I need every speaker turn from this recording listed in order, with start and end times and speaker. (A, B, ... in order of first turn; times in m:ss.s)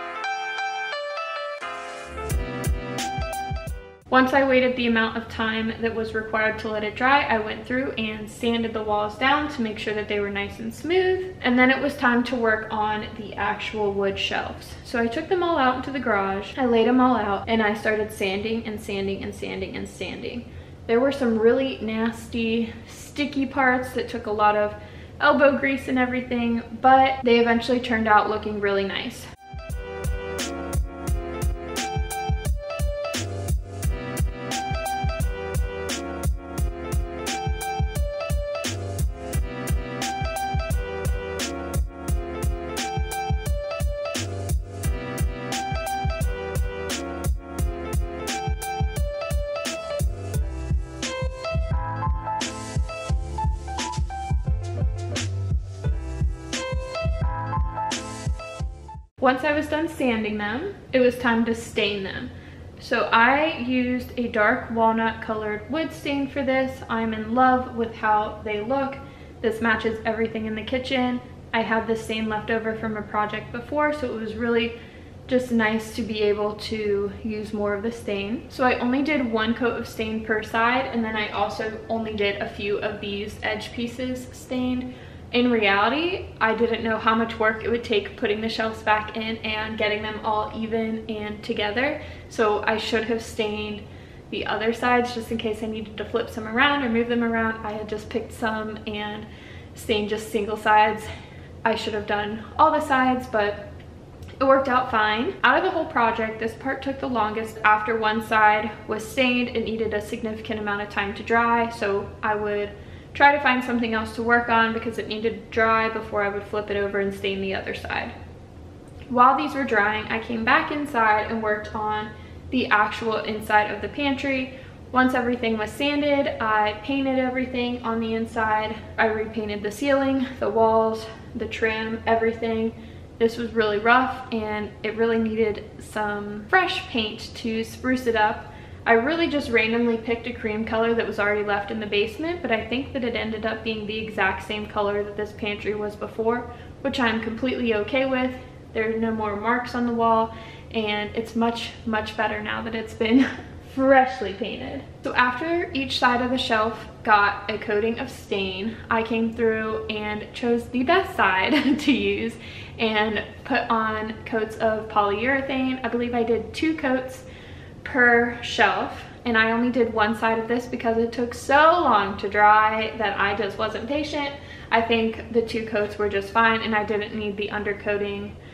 0:04.1-0:29.3 A
0:59.2-1:14.8 A
1:15.3-1:41.1 A
1:41.6-1:43.7 A
1:44.4-1:58.1 A
1:59.1-2:47.3 A
2:47.8-2:58.4 A